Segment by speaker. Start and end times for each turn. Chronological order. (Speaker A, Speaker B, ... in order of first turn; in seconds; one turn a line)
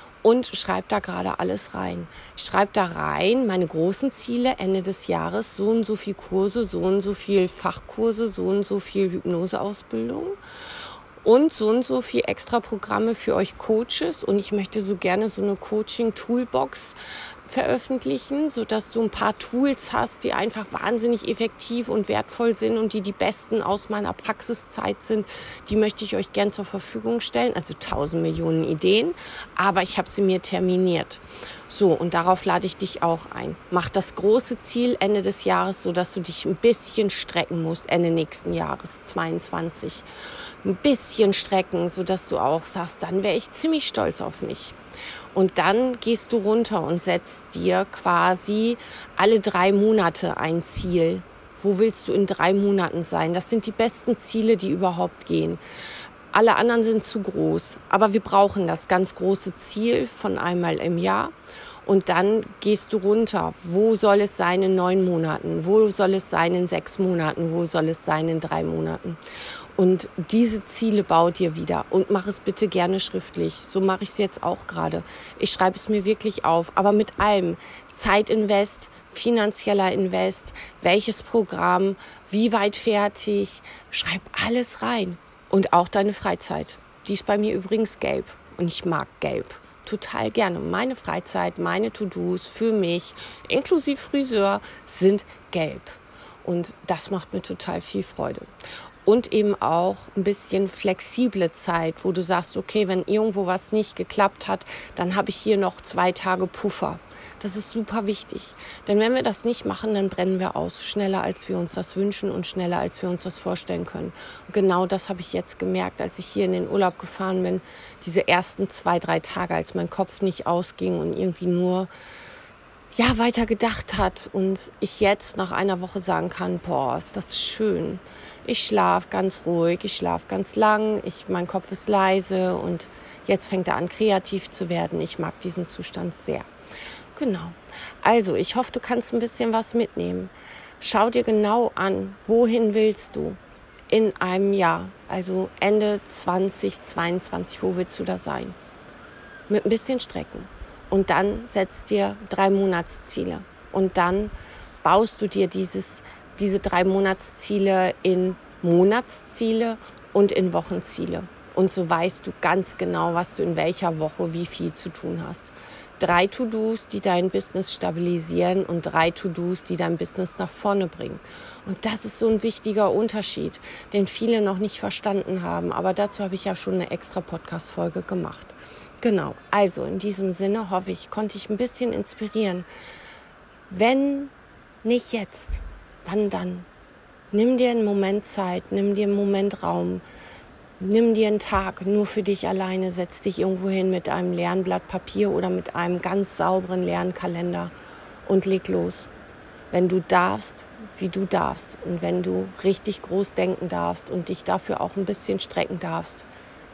Speaker A: 0.2-10.4
Speaker A: 11.2-40.1
Speaker A: 40.6-44.8
Speaker A: 45.3-55.6
Speaker A: 56.3-61.3
Speaker A: 61.9-69.2
Speaker A: 69.8-98.5
Speaker A: 99.1-121.9
Speaker A: 122.9-136.5
Speaker A: 137.2-148.6
Speaker A: 149.5-182.7
Speaker A: 183.7-184.3
Speaker A: 184.8-186.7
Speaker A: 187.3-190.0
Speaker A: 190.8-197.7
Speaker A: 198.2-199.1
Speaker A: 199.7-206.3